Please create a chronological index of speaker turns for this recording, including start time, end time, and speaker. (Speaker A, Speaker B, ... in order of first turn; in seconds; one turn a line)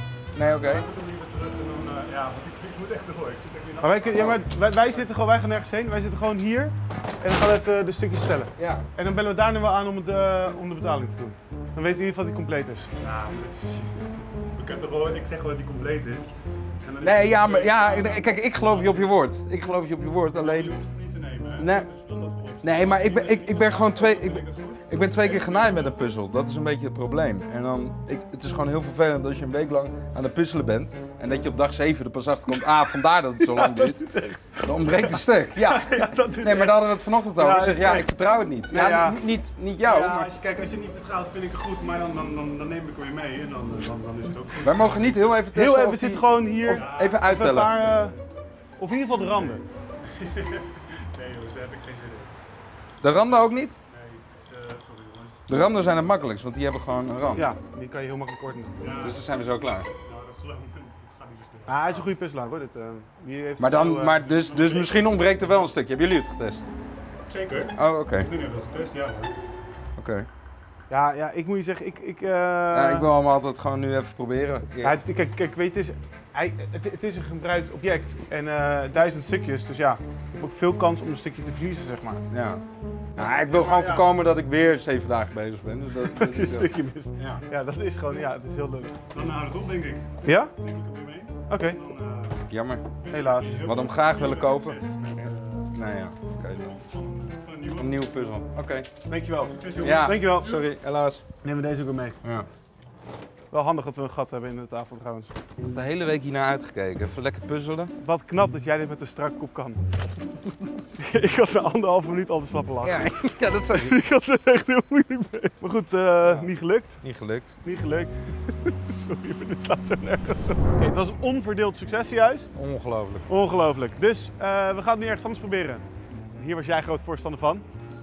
Speaker A: 0.3-0.9
Speaker B: 0.4-5.1
Speaker C: 3.8-12.9
Speaker A: 8.6-8.9
Speaker B: 13.0-19.1
Speaker A: 17.0-20.7
Speaker B: 20.3-26.1
Speaker A: 21.6-21.9
Speaker A: 22.6-34.1
Speaker C: 33.4-38.2
Speaker A: 34.6-40.3
Speaker C: 38.7-39.2
Speaker B: 39.8-45.3
Speaker A: 44.6-47.8
Speaker C: 45.5-48.2
Speaker B: 46.7-48.0
Speaker C: 48.8-49.6
Speaker B: 49.4-52.3
Speaker A: 53.0-53.8
Speaker B: 53.9-55.5
Speaker A: 55.5-57.5
Speaker C: 57.3-58.8
Speaker B: 58.8-59.3
Speaker A: 58.9-59.9
Speaker B: 60.0-62.1
Speaker C: 61.7-64.3
Speaker A: 63.6-66.7
Speaker B: 64.2-65.2
Speaker B: 67.2-69.3
Speaker A: 67.8-68.3
Speaker A: 70.0-70.3
Speaker C: 70.9-73.1
Speaker A: 72.7-75.0
Speaker C: 74.8-82.2
Speaker A: 82.3-82.6
Speaker C: 83.2-84.1
Speaker A: 83.2-87.4
Speaker C: 86.0-89.0
Speaker B: 89.1-95.7
Speaker C: 90.2-90.5
Speaker C: 91.5-91.8
Speaker A: 92.5-92.9
Speaker C: 93.1-93.7
Speaker A: 93.6-94.8
Speaker A: 95.7-96.8
Speaker B: 96.3-98.0
Speaker A: 97.8-98.9
Speaker C: 99.1-100.6
Speaker B: 99.5-100.7
Speaker A: 99.8-101.2
Speaker C: 101.4-102.2
Speaker C: 103.5-105.3
Speaker A: 105.7-107.9
Speaker C: 108.0-109.8
Speaker C: 110.9-117.0
Speaker A: 112.8-114.0
Speaker A: 116.2-116.5
Speaker A: 117.0-117.6
Speaker C: 117.6-122.5
Speaker A: 122.5-123.3
Speaker C: 123.3-127.7